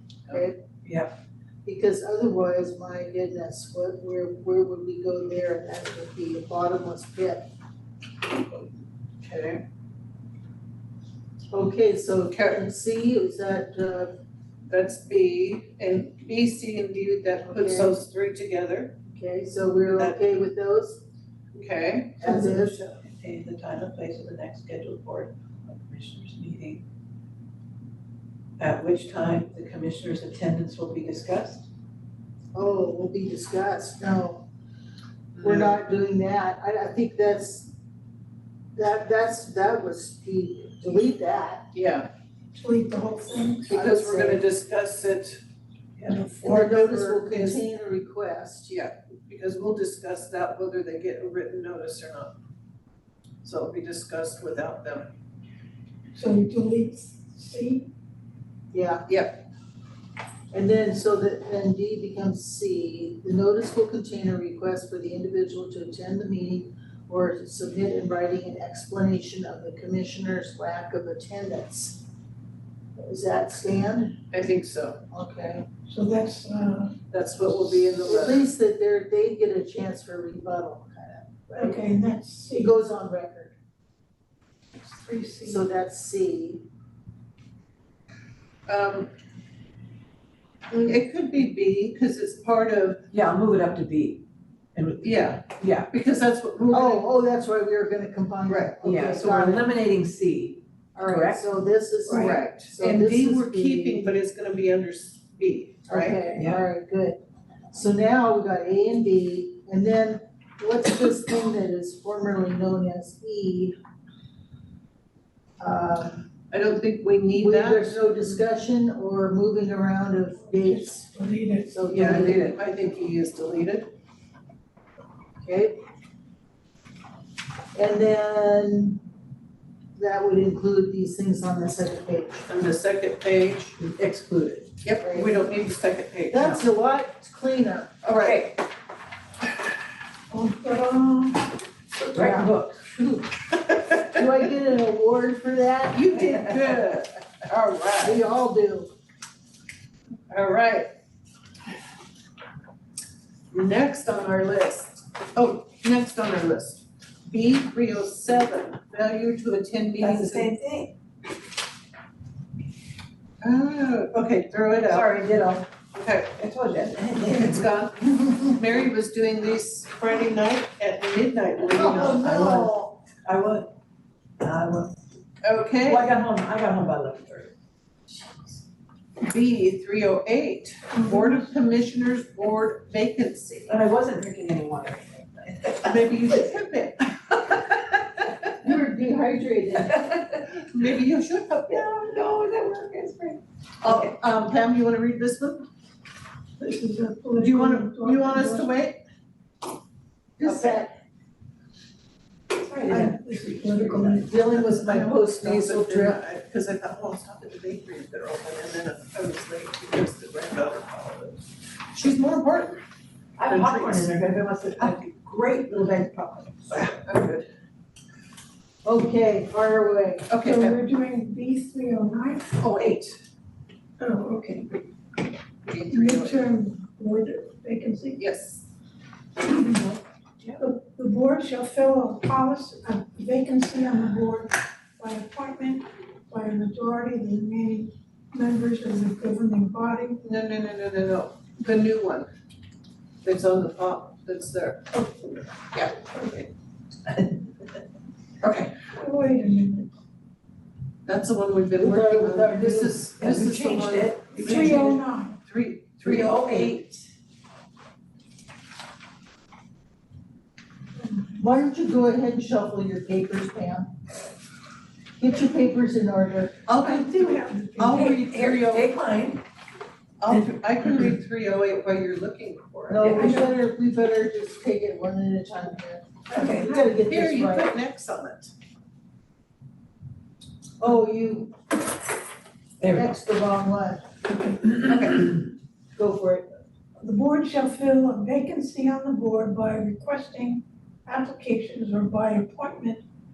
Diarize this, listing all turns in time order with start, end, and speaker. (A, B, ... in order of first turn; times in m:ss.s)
0:00.3-0:00.6 A
0:00.8-0:01.1 B
0:01.6-0:07.5 A
0:08.2-0:08.7 C
0:09.2-0:09.6 C
0:11.5-0:14.2 A
0:12.3-0:12.6 C
0:14.7-0:19.0 C
0:17.5-0:17.9 A
0:19.1-0:21.0 A
0:19.9-0:20.2 C
0:21.5-0:22.2 C
0:22.2-0:22.8 A
0:22.2-0:26.8 B
0:28.6-0:31.7 B
0:32.6-0:34.5 A
0:35.4-0:35.8 C
0:35.4-0:37.7 A
0:38.8-0:41.7 A
0:41.7-0:42.1 C
0:42.6-0:43.7 D
0:43.7-0:45.4 C
0:43.7-0:44.4 A
0:46.1-0:46.6 D
0:46.4-0:47.6 C
0:46.4-0:48.8 A
0:48.7-0:52.4 C
0:53.4-0:55.1 C
0:56.2-0:57.9 D
0:58.7-0:59.0 A
0:59.1-0:59.4 C
1:00.5-1:12.0 A
1:13.0-1:14.2 A
1:14.3-1:15.0 C
1:15.1-1:15.7 A
1:15.9-1:17.0 D
1:17.1-1:18.5 C
1:18.0-1:21.8 A
1:21.5-1:22.7 D
1:22.5-1:23.5 A
1:24.8-1:25.6 D
1:25.4-1:26.6 A
1:28.7-1:29.1 C
1:30.7-1:33.0 C
1:33.1-1:34.2 B
1:34.8-1:35.9 B
1:35.0-1:37.1 C
1:36.7-1:39.7 A
1:38.5-1:38.8 C
1:38.8-1:41.5 B
1:41.0-1:44.1 A
1:42.1-1:46.2 C
1:45.9-1:47.2 A
1:46.4-1:46.6 B
1:47.7-1:53.8 A
1:55.6-1:56.3 A
1:56.5-1:58.4 C
1:57.4-2:01.1 A
2:00.5-2:02.2 D
2:01.7-2:02.6 A
2:01.9-2:03.9 C
2:05.4-2:05.8 A
2:07.8-2:09.0 A
2:10.0-2:12.5 A
2:12.5-2:13.8 C
2:13.8-2:14.7 B
2:14.8-2:16.6 C
2:15.0-2:15.4 A
2:16.3-2:18.0 A
2:18.0-2:18.5 C
2:18.2-2:18.5 B
2:20.3-2:21.5 D
2:22.1-2:22.9 B
2:22.2-2:23.2 A
2:23.5-2:24.2 C
2:24.1-2:26.3 A
2:25.9-2:28.2 C
2:28.0-2:28.9 A
2:30.3-2:30.9 C
2:33.5-2:40.5 C
2:40.0-2:41.0 B
2:43.4-2:45.2 C
2:44.8-2:45.7 B
2:45.9-2:46.3 C
2:46.4-2:47.6 B
2:47.3-2:52.7 C
2:51.8-2:52.9 A
2:51.8-2:53.7 B
2:54.4-2:55.0 B
2:55.4-2:56.1 C
2:55.8-2:57.5 B
2:59.2-3:03.8 C
3:00.9-3:01.5 D
3:03.7-3:06.3 B
3:05.8-3:08.3 C
3:08.6-3:10.2 A
3:09.9-3:10.2 B
3:10.7-3:11.9 C
3:11.7-3:14.2 B
3:13.8-3:15.7 C
3:16.6-3:18.7 D
3:17.4-3:19.0 C
3:20.4-3:20.9 A
3:20.4-3:20.8 C
3:22.6-3:24.3 B
3:22.9-3:24.3 D
3:24.3-3:26.2 A
3:24.6-3:32.8 C
3:33.4-3:36.9 B
3:33.4-3:35.0 C
3:36.7-3:37.5 C
3:38.8-3:40.3 A
3:40.3-3:40.8 C
3:40.4-3:42.6 D
3:42.6-3:43.2 C
3:44.0-3:44.7 D
3:45.6-3:46.5 C
3:45.9-3:48.2 D
3:48.2-3:48.6 C
3:49.7-3:50.6 B
3:50.6-4:00.2 D
4:00.2-4:02.3 C
4:03.2-4:04.9 C
4:05.7-4:06.4 C
4:08.4-4:08.8 C
4:08.9-4:09.9 D
4:11.1-4:16.8 C
4:11.8-4:13.0 A
4:13.2-4:15.0 B
4:14.4-4:15.4 D
4:16.0-4:17.0 B
4:21.4-4:23.9 A
4:25.2-4:26.6 A
4:26.7-4:28.9 C
4:26.8-4:28.4 D
4:27.9-4:29.4 B
4:30.2-4:33.2 C
4:32.9-4:37.7 A
4:33.0-4:33.6 B
4:36.3-4:36.8 B
4:36.7-4:38.5 C
4:40.8-4:41.5 A
4:42.8-4:43.1 B
4:42.8-4:44.0 A
4:44.8-4:45.2 B
4:46.0-4:46.5 A
4:47.0-4:53.0 D